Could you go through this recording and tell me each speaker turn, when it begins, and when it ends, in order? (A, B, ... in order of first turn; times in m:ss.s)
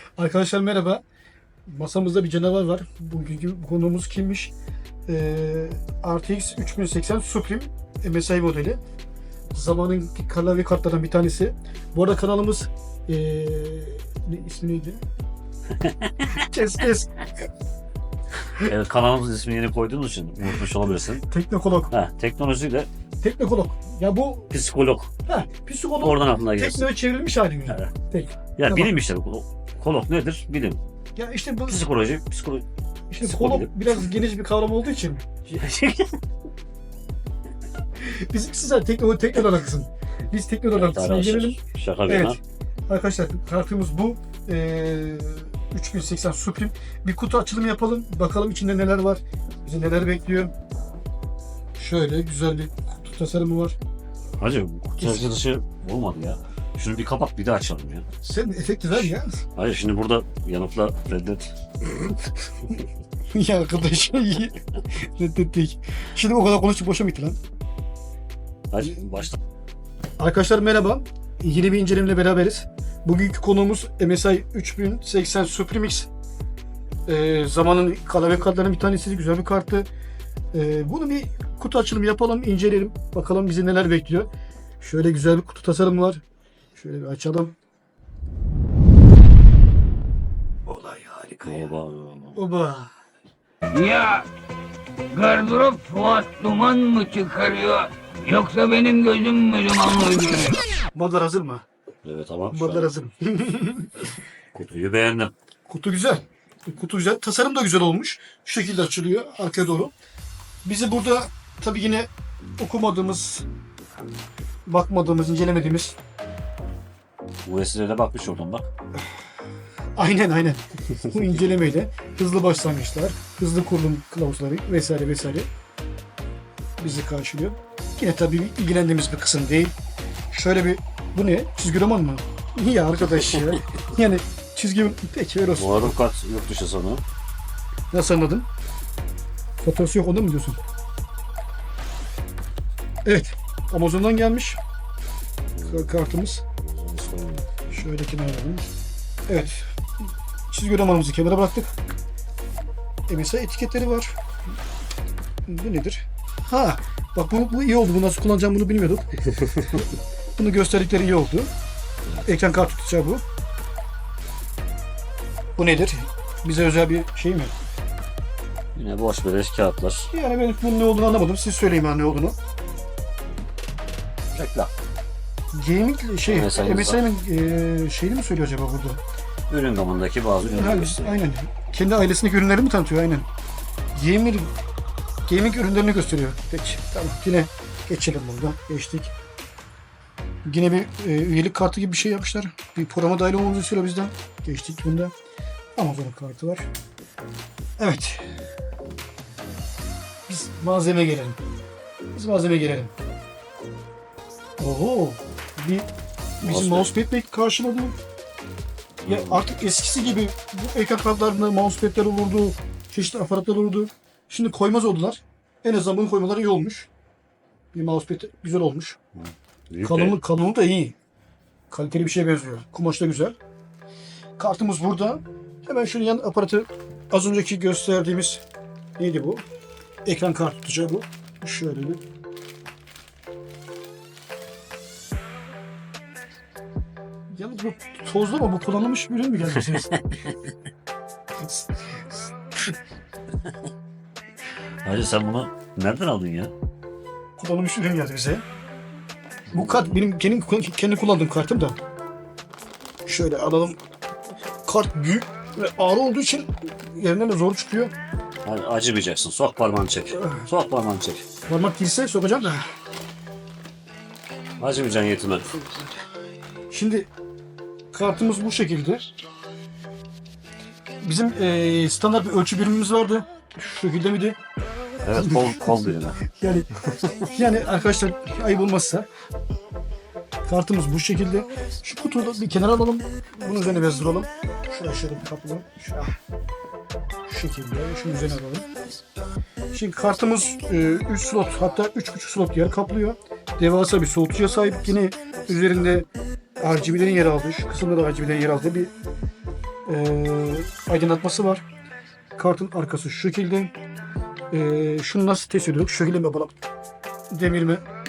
0:00.2-0:01.0 A
0:01.7-0:04.5 A
0:05.1-0:08.8 A
0:09.5-0:15.0 A
0:15.8-0:16.4 B
0:16.3-0:17.3 A
0:18.6-0:21.3 B
0:21.3-0:21.9 A
0:21.9-0:22.9 B
0:23.2-0:24.5 A
0:24.5-0:25.1 B
0:25.3-0:28.9 A
0:26.0-0:26.9 B
0:28.6-0:30.8 B
0:31.2-0:31.8 A
0:31.7-0:32.6 B
0:33.1-0:35.2 A
0:33.2-0:34.1 B
0:35.5-0:36.2 B
0:38.0-0:50.5 A
0:40.7-0:42.4 B
0:51.8-0:53.8 A
0:54.4-0:58.1 B
0:55.0-0:55.3 A
0:58.2-0:59.4 A
0:58.9-1:01.5 B
1:03.3-1:07.4 A
1:08.7-1:09.4 B
1:10.2-1:16.1 A
1:17.1-1:19.9 A
1:20.5-1:24.3 A
1:24.8-1:26.2 A
1:26.8-1:27.6 A
1:30.7-1:31.6 A
1:31.4-1:32.4 B
1:32.3-1:32.9 A
1:33.7-1:34.3 C
1:35.1-1:40.6 C
1:40.9-1:41.6 A
1:42.0-1:42.9 B
1:42.5-1:44.0 A
1:44.5-1:45.3 B
1:45.7-1:49.9 A
1:50.6-1:53.5 A
1:54.7-1:56.0 A
1:57.5-1:58.7 B
2:00.0-2:05.5 A
2:06.8-2:09.7 A
2:10.3-2:16.0 A
2:15.6-2:17.0 B
2:17.9-2:18.5 A
2:19.6-2:20.6 A
2:23.0-2:24.6 A
2:25.6-2:26.0 B
2:25.6-2:26.4 A
2:26.6-2:27.5 B
2:27.7-2:28.7 A
2:29.3-2:29.7 A
2:30.5-2:31.7 A
2:33.1-2:34.2 A
2:35.5-2:39.2 A
2:39.4-2:39.8 B
2:40.4-2:41.5 A
2:42.2-2:43.2 A
2:45.6-2:47.5 A
2:48.8-2:50.1 B
2:50.1-2:52.4 A
2:54.3-2:54.7 B
2:55.5-2:59.0 A
2:56.2-2:57.0 B
2:59.5-3:01.2 B
3:00.5-3:03.3 A
3:03.9-3:04.5 A
3:05.3-3:09.1 A
3:10.4-3:15.1 A
3:15.8-3:16.7 A
3:17.8-3:18.3 A
3:20.3-3:21.4 A
3:22.1-3:22.9 A
3:24.6-3:25.9 A
3:26.4-3:26.9 B
3:26.4-3:28.0 A
3:29.0-3:29.4 B
3:29.1-3:36.9 A
3:37.7-3:39.0 A
3:39.2-3:40.2 B
3:39.8-3:41.0 A
3:41.7-3:43.4 A
3:44.4-3:48.4 A
3:49.0-3:49.4 A
3:50.0-3:52.0 A
3:57.3-3:59.9 A
4:00.0-4:00.3 B
4:01.4-4:01.7 A
4:04.8-4:06.5 B
4:07.4-4:08.4 A
4:09.5-4:10.0 B
4:09.5-4:11.8 A
4:13.1-4:13.8 A
4:14.6-4:17.9 A
4:18.4-4:21.2 B
4:20.2-4:20.4 A
4:21.5-4:22.6 A
4:24.6-4:25.6 B
4:26.7-4:27.1 A
4:27.9-4:29.1 A
4:31.0-4:34.4 A
4:35.0-4:36.2 B
4:35.1-4:36.7 A
4:37.2-4:39.1 A
4:40.5-4:46.1 A
4:47.3-4:48.7 A
4:49.7-4:56.1 A
4:56.6-4:58.9 A
4:59.9-5:01.6 A
5:02.4-5:03.7 A
5:04.5-5:06.6 A
5:07.3-5:07.8 A